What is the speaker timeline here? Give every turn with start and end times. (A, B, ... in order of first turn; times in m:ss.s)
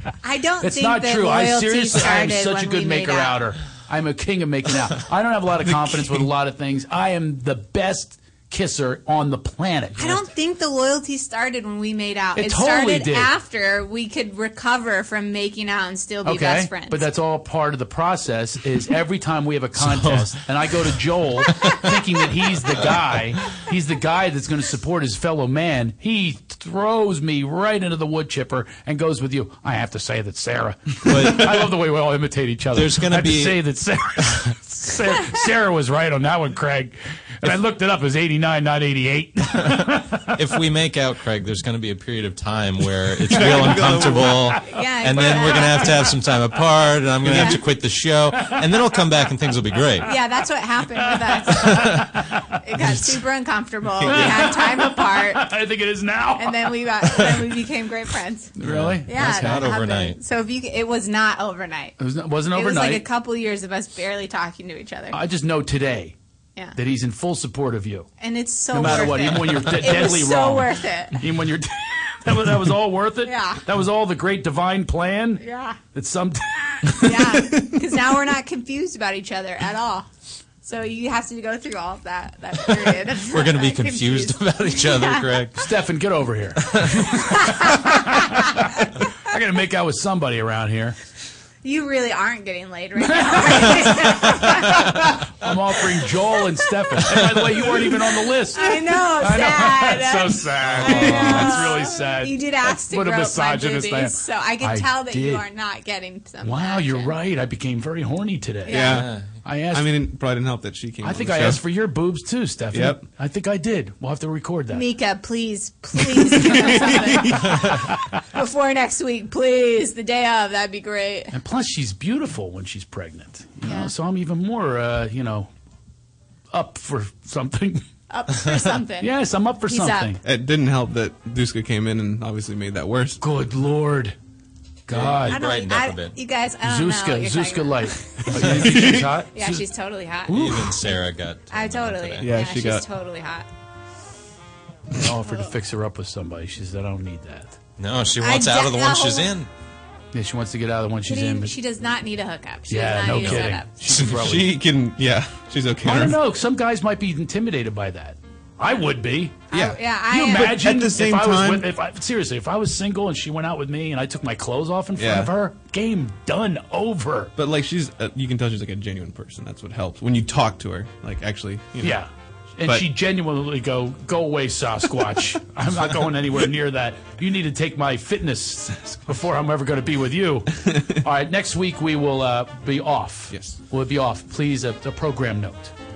0:00.2-0:03.4 A
0:00.6-0:10.2 B
0:10.0-0:17.0 A
0:12.4-0:13.3 B
0:16.2-0:40.4 B
0:19.8-0:20.4 C
0:21.5-0:21.9 C
0:31.1-0:31.4 C
0:32.7-0:33.6 C
0:40.4-0:50.1 C
0:43.3-0:44.6 D
0:44.6-0:46.1 A
0:47.2-0:47.5 B
0:47.3-0:47.6 D
0:50.0-0:52.0 A
0:51.5-0:52.5 B
0:51.6-0:52.0 C
0:52.6-0:55.5 A
0:54.0-0:54.4 D
0:54.1-0:57.6 B
0:56.4-0:58.5 A
0:58.6-0:59.6 B
0:58.6-1:00.2 C
0:59.1-1:02.0 A
1:02.0-1:03.0 B
1:02.5-1:05.2 A
1:05.1-1:06.2 B
1:06.8-1:08.1 B
1:08.2-1:11.2 A
1:08.7-1:15.4 B
1:13.2-1:13.6 A
1:15.4-1:15.8 A
1:15.9-1:17.6 B
1:17.0-1:20.1 A
1:20.6-1:25.3 A
1:23.2-1:25.6 C
1:25.6-1:31.0 B
1:27.4-1:28.0 A
1:31.6-1:35.1 A
1:33.2-1:45.4 B
1:38.5-1:47.1 A
1:40.8-1:41.7 C
1:46.4-1:49.9 B
1:48.7-1:49.0 A
1:48.7-1:49.2 D
1:48.9-1:49.3 C
1:49.7-1:51.6 D
1:51.0-1:54.8 B
1:52.7-1:53.0 D
1:54.7-2:01.3 A
1:56.5-1:57.5 D
2:01.3-2:05.5 B
2:03.6-2:03.9 A
2:06.5-2:07.8 B
2:08.1-2:09.1 A
2:09.0-2:10.2 B
2:09.7-2:10.1 A
2:10.2-2:13.2 D
2:13.2-2:14.2 B
2:14.9-2:15.4 B
2:14.9-2:16.2 C
2:15.3-2:17.9 A
2:16.6-2:19.7 B
2:18.3-2:19.2 D
2:19.3-2:20.4 A
2:20.3-2:20.8 B
2:20.3-2:22.3 C
2:21.5-2:23.5 A
2:22.2-2:22.9 D
2:25.0-2:27.6 B
2:27.8-2:29.5 C
2:28.2-2:29.3 A
2:30.1-2:31.5 B
2:31.1-2:33.7 A
2:32.7-2:34.6 B
2:33.9-2:36.2 D
2:35.8-2:39.5 B
2:39.5-2:39.8 D
2:39.5-2:40.6 A
2:40.1-2:47.3 B
2:40.3-2:41.7 D
2:45.0-2:45.3 D
2:47.4-2:52.0 D
2:51.8-3:05.7 B
3:00.6-3:01.0 D
3:03.3-3:03.6 D